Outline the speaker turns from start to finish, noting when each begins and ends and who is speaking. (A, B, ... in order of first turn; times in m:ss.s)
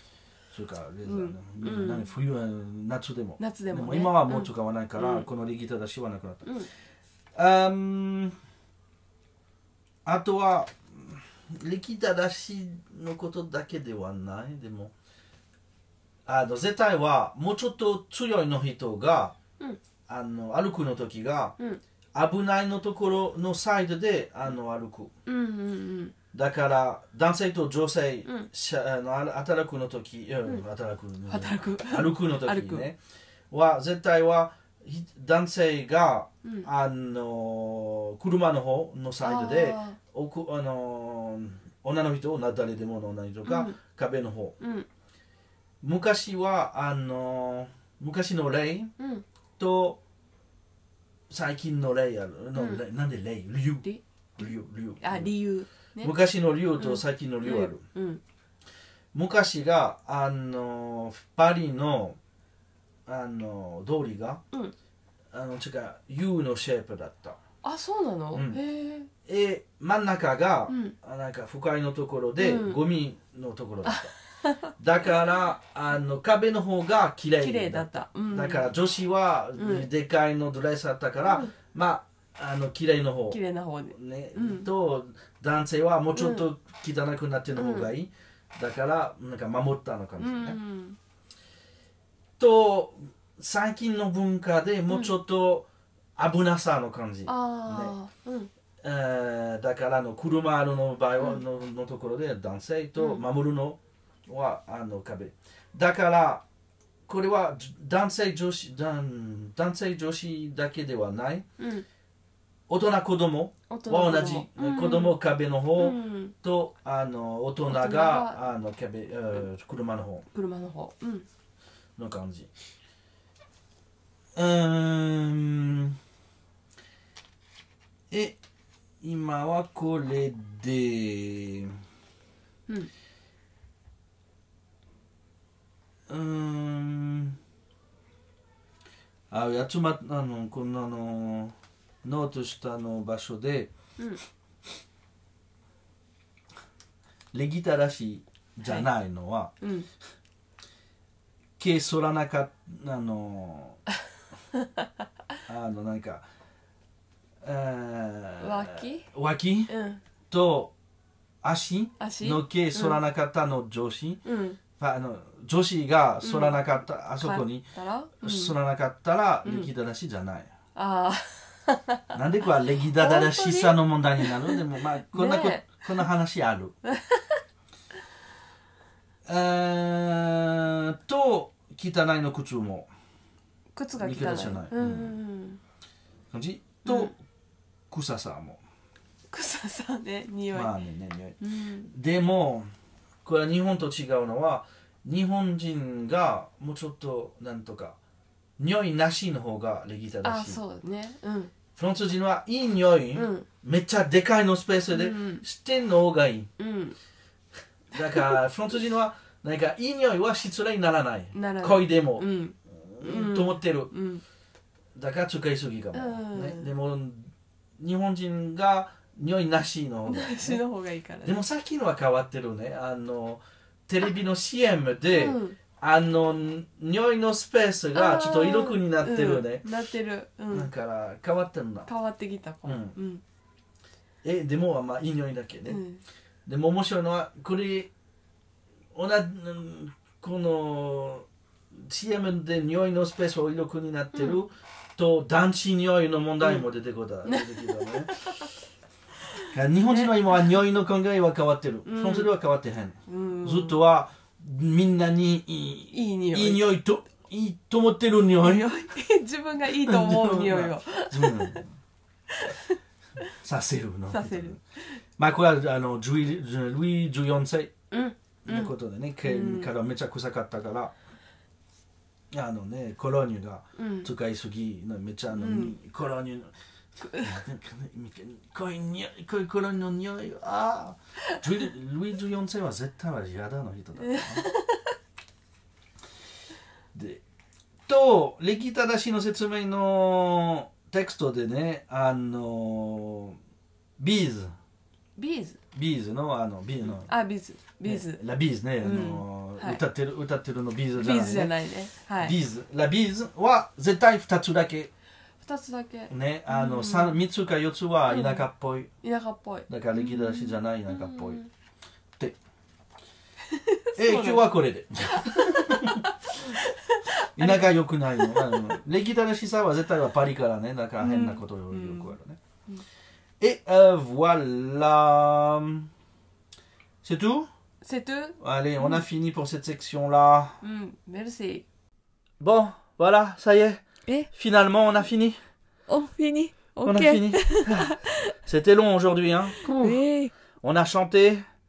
0:00.5-0:06.6 A
0:01.1-0:02.1 B
0:03.4-0:05.3 B
0:07.3-0:08.4 A
0:10.0-0:14.9 A
0:16.3-0:19.4 A
0:20.1-0:21.6 A
0:22.2-0:25.1 A
0:25.3-0:26.1 B
0:26.3-0:33.0 A
0:31.3-0:32.9 B
0:33.5-0:44.6 A
0:39.2-0:40.0 B
0:43.4-0:43.8 B
0:44.6-0:44.9 B
0:45.8-0:48.9 A
0:49.0-0:49.2 B
0:49.6-0:50.0 A
0:51.3-0:53.9 A
0:52.6-0:52.8 B
0:54.4-0:55.3 A
0:55.0-0:56.2 B
0:56.0-0:57.8 A
0:56.8-0:58.2 B
0:59.1-1:02.2 A
1:03.1-1:04.4 A
1:05.3-1:07.4 A
1:07.6-1:09.1 B
1:08.3-1:08.6 A
1:09.3-1:14.1 A
1:10.7-1:11.0 B
1:12.4-1:12.8 B
1:13.8-1:14.7 B
1:14.7-1:23.4 A
1:17.4-1:18.7 B
1:19.6-1:19.9 B
1:21.2-1:21.5 B
1:23.3-1:24.7 B
1:23.9-1:30.6 A
1:26.1-1:26.5 B
1:27.6-1:27.9 B
1:30.2-1:31.0 B
1:32.4-1:37.9 A
1:37.3-1:38.5 B
1:38.8-1:46.4 A
1:43.0-1:43.2 B
1:47.1-1:51.5 A
1:51.6-1:51.8 B
1:52.7-2:00.2 A
1:53.7-1:55.2 B
1:55.8-1:56.4 B
1:57.7-1:58.4 B
2:00.3-2:01.3 B
2:02.0-2:02.5 A
2:04.4-2:06.0 A
2:08.1-2:08.4 A
2:09.0-2:11.8 A
2:16.1-2:17.4 A
2:19.3-2:23.7 A
2:27.3-2:29.5 A
2:29.6-2:29.9 B
2:31.6-2:33.8 A
2:35.5-2:36.2 A
2:37.4-2:39.7 A
2:38.4-2:39.1 B
2:39.7-2:40.0 B
2:40.3-2:40.7 A
2:41.4-2:44.2 A
2:42.0-2:43.0 B
2:44.2-2:44.6 B
2:44.8-2:47.7 A
2:46.2-2:48.6 B
2:48.2-2:50.5 A
2:50.8-2:52.2 B
2:52.1-2:56.7 A
2:53.0-2:54.6 B
2:55.1-2:55.9 B
2:56.8-2:57.4 B
2:59.2-3:02.9 A
3:03.8-3:05.6 B
3:04.0-3:05.2 A
3:06.3-3:07.2 A
3:06.8-3:07.1 B
3:07.9-3:08.6 A
3:09.3-3:10.7 B
3:10.5-3:12.7 A
3:11.4-3:11.9 B
3:13.2-3:18.0 A
3:18.6-3:20.6 A
3:20.2-3:21.5 B
3:21.8-3:26.5 A
3:23.2-3:23.5 B
3:24.9-3:25.4 B
3:26.6-3:27.0 B
3:27.9-3:33.9 A
3:31.3-3:34.2 B
3:35.0-3:40.6 A
3:35.9-3:36.7 B
3:40.1-3:41.4 B
3:41.2-3:49.7 A
3:45.1-3:45.6 B
3:48.0-3:50.7 B
3:50.5-3:51.9 A
3:51.9-3:53.2 B
3:52.6-3:53.0 A
3:54.2-3:55.8 A
3:55.7-3:56.0 B
3:56.5-3:57.9 A
3:58.9-4:08.2 A
4:04.1-4:04.4 B
4:07.3-4:08.5 B
4:09.4-4:10.5 B
4:09.4-4:18.7 A
4:11.9-4:12.3 B
4:13.1-4:13.8 B
4:15.9-4:16.7 B
4:18.4-4:21.6 B
4:19.8-4:21.7 A
4:22.3-4:23.3 B
4:23.3-4:24.6 A
4:24.1-4:25.0 B
4:25.2-4:27.7 A
4:27.9-4:29.7 B
4:28.4-4:31.0 A
4:32.3-4:36.5 A
4:33.8-4:34.1 B
4:35.3-4:35.8 B
4:37.0-4:37.4 B
4:37.2-4:44.5 A
4:44.0-4:44.9 B
4:46.9-4:47.2 A
4:47.9-4:53.4 A
4:54.0-4:54.5 A
4:55.2-4:55.6 B
4:55.7-4:57.1 A
4:57.1-4:58.2 B
4:57.8-5:01.5 A
4:58.8-4:59.8 B
5:01.0-5:02.4 B
5:02.2-5:04.9 A
5:05.4-5:07.2 B
5:06.1-5:08.9 A
5:08.1-5:08.5 B
5:09.0-5:11.5 B
5:09.7-5:11.4 A
5:13.5-5:14.5 B
5:14.0-5:16.5 A
5:15.1-5:18.6 B
5:17.4-5:22.4 A
5:21.0-5:22.2 B
5:23.4-5:25.9 A
5:27.0-5:27.5 A
5:27.8-5:29.0 B
5:28.4-5:30.6 A
5:30.6-5:31.6 B
5:32.4-5:35.4 A
5:35.9-5:38.0 C
5:36.8-5:39.9 A
5:39.6-5:40.0 B
5:39.6-5:40.3 C
5:40.6-5:41.4 A